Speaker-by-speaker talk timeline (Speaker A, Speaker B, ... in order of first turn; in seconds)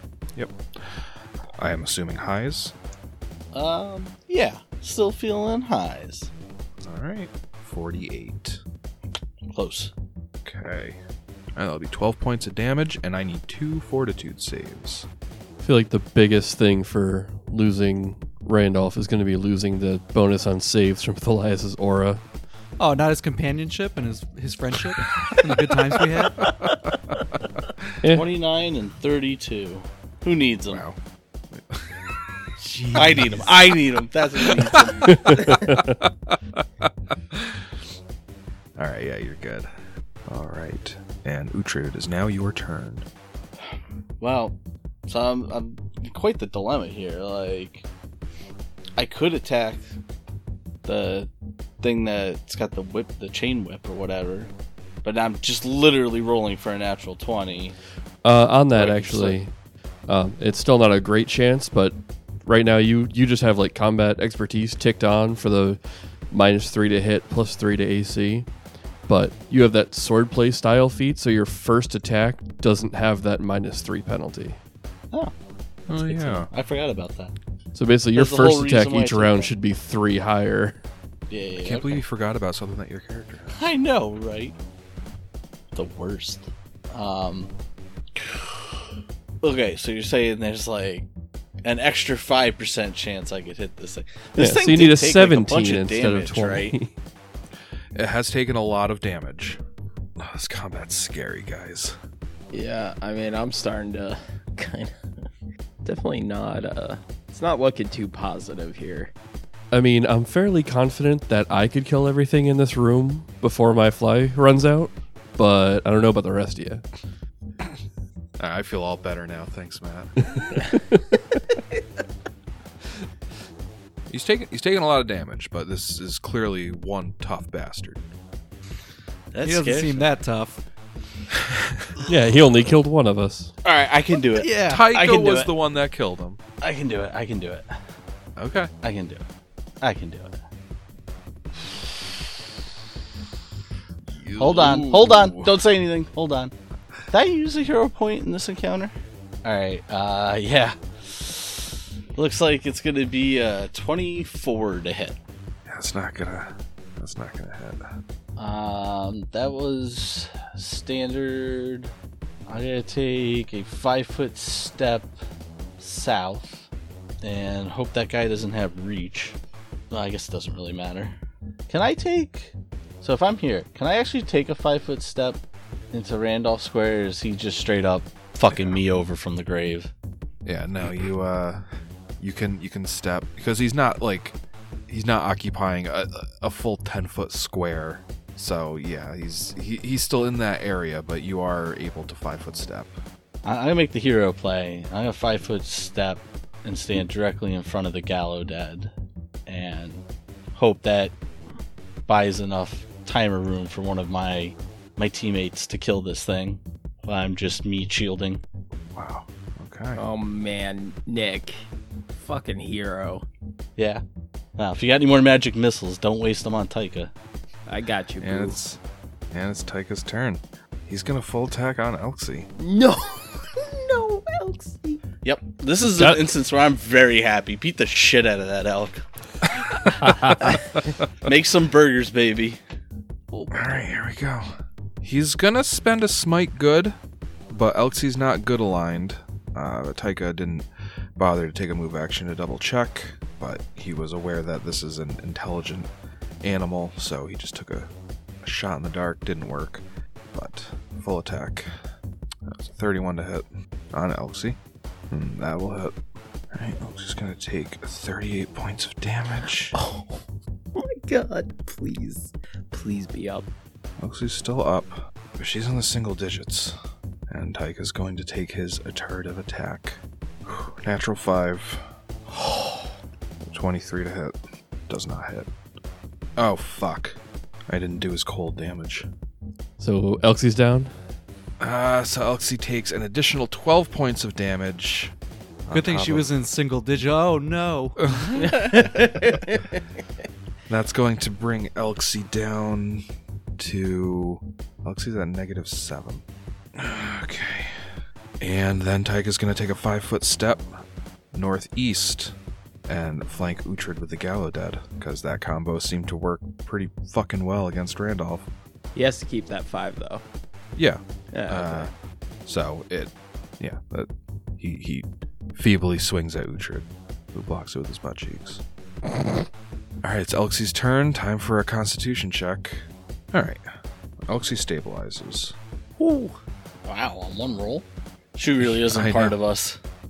Speaker A: 0.3-2.8, 6.8-8.6, 10.4-11.0, 11.6-15.1, 26.4-26.9, 30.7-31.0, 31.5-32.0, 34.5-37.7, 38.8-39.7, 40.3-43.1, 75.9-76.5, 81.6-83.7, 98.0-99.6, 100.2-102.0, 118.4-120.2, 124.1-128.0, 134.6-136.4, 138.4-138.7, 144.1-145.6, 155.7-157.8, 178.5-178.8, 180.4-184.4, 184.9-192.9, 208.9-210.0, 218.2-218.8, 219.3-222.5, 233.5-234.5, 235.0-237.0, 237.5-245.9, 246.4-247.9, 248.4-251.7, 252.5-254.6, 255.1-255.9, 256.5-259.8, 264.0-266.8, 267.3-271.9, 273.4-274.4, 274.9-275.5, 276.4-279.1, 281.6-285.1, 285.7-286.3, 290.7-293.0, 293.6-296.2, 296.8-297.9, 298.4-300.7, 301.3-302.4, 302.9-308.5, 310.8-311.9, 312.4-318.6, 320.0-323.6, 324.3-325.6, 328.8-329.4
Speaker B: 3.5-6.3, 9.5-9.9, 28.1-30.8, 32.9-35.4, 44.2-44.6, 45.1-47.9, 49.0-49.9, 50.9-51.3, 51.8-54.5, 55.0-57.8, 58.7-59.4, 75.9-77.3, 78.2-79.5, 81.3-82.0, 83.5-84.5, 85.7-87.5, 88.2-88.7, 89.4-91.1, 91.6-96.8, 129.3-130.1, 133.6-135.5, 136.6-137.7, 138.8-139.2, 139.8-140.4, 144.4-146.5, 147.1-148.9, 149.4-155.2, 158.4-161.9, 162.5-165.2, 165.8-166.7, 167.2-169.4, 169.9-171.1, 171.7-175.4, 175.9-179.9, 193.4-198.9, 199.5-200.0, 200.6-201.1, 202.1-208.4, 213.8-214.0, 214.6-217.1, 225.2-229.0, 230.3-230.7, 231.2-232.6, 288.3-288.9, 326.9-329.8
Speaker C: 15.6-22.2, 35.0-36.0, 58.2-59.5, 60.1-68.5, 69.1-74.6, 77.8-80.8, 94.4-96.9, 109.7-116.8, 132.1-133.5, 225.8-226.3, 230.0-230.3, 279.8-281.0
Speaker D: 22.8-26.5, 32.6-33.5, 129.4-130.6, 134.3-134.9, 285.7-288.5
Speaker E: 102.5-105.0, 105.8-109.1, 209.9-213.2, 217.7-218.6, 222.6-225.0, 233.3-233.8, 259.8-260.2, 260.7-263.5, 288.4-289.8, 308.9-310.2, 311.3-311.9, 326.0-326.4